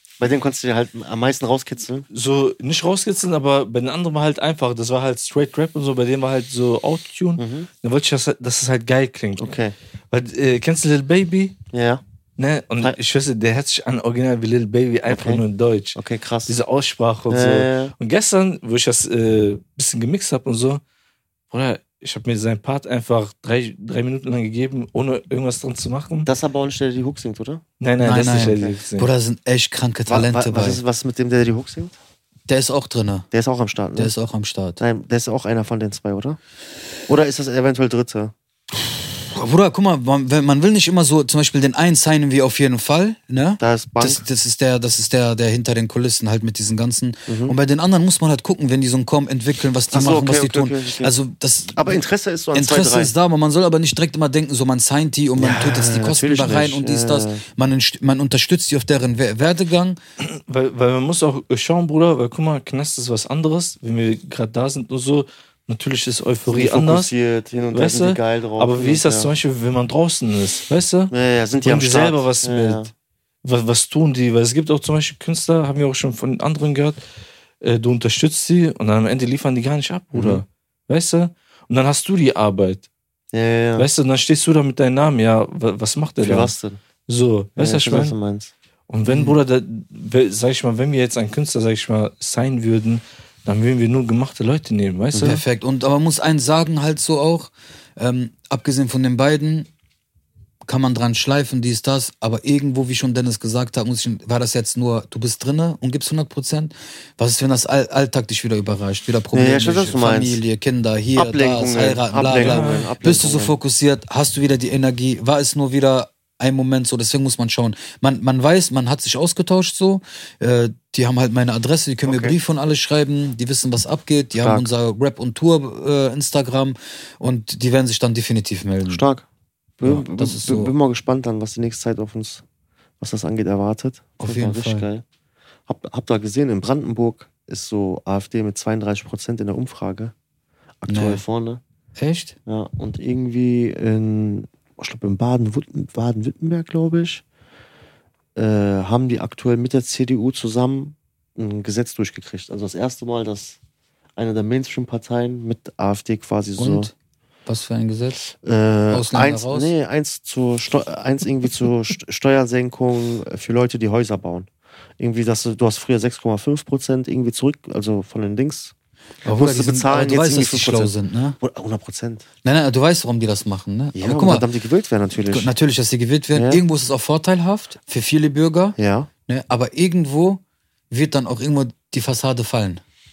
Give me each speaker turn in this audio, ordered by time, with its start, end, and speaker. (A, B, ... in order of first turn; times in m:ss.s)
0:00.2-0:02.1 A
0:02.1-0:09.5 B
0:07.4-0:07.7 A
0:09.4-0:09.7 A
0:10.1-0:11.6 B
0:11.7-0:12.0 A
0:12.4-0:20.8 B
0:15.1-0:15.4 A
0:16.0-0:16.6 A
0:17.3-0:17.9 A
0:21.5-0:26.3 B
0:26.2-0:27.6 A
0:27.8-0:29.1 B
0:28.0-0:30.8 C
0:28.2-0:28.8 A
0:30.1-0:32.0 A
0:32.5-0:33.3 C
0:33.3-0:34.1 A
0:34.0-0:34.8 C
0:34.8-0:36.4 A
0:37.1-0:38.3 A
0:39.1-0:52.0 C
0:43.6-0:44.2 A
0:47.3-0:47.6 A
0:49.9-0:51.1 A
0:51.7-0:53.1 A
0:52.5-1:00.0 C
0:55.4-0:57.4 A
1:00.2-1:07.1 B
1:06.4-1:09.3 A
1:07.7-1:12.9 B
1:11.1-1:12.9 A
1:13.4-1:17.0 B
1:17.6-1:22.9 B
1:20.1-1:20.4 A
1:23.3-1:23.9 A
1:23.8-1:26.5 B
1:26.2-1:26.8 A
1:27.1-1:28.2 B
1:27.6-1:28.5 A
1:28.9-1:35.4 B
1:29.1-1:29.4 A
1:35.2-1:39.7 C
1:40.6-2:09.0 C
1:49.3-1:50.4 A
1:51.2-1:53.6 A
1:52.4-1:52.9 B
2:02.1-2:02.4 A
2:04.4-2:04.7 A
2:08.9-2:09.3 A
2:09.8-2:12.4 A
2:09.8-2:10.7 C
2:13.0-2:15.0 A
2:14.2-2:14.9 C
2:15.7-2:20.1 A
2:20.8-2:21.6 A
2:20.9-2:21.2 C
2:22.0-2:22.4 C
2:22.5-2:27.2 A
2:28.4-2:33.6 A
2:34.2-2:36.9 A
2:36.6-2:36.9 C
2:37.5-2:38.2 C
2:38.3-2:44.5 A
2:38.9-2:39.7 C
2:45.0-2:48.7 A
2:49.2-2:51.4 C
2:49.2-2:52.3 A
2:52.4-2:54.5 C
2:53.9-2:55.5 A
2:55.3-3:02.8 C
2:56.3-2:56.6 A
2:58.8-2:59.1 A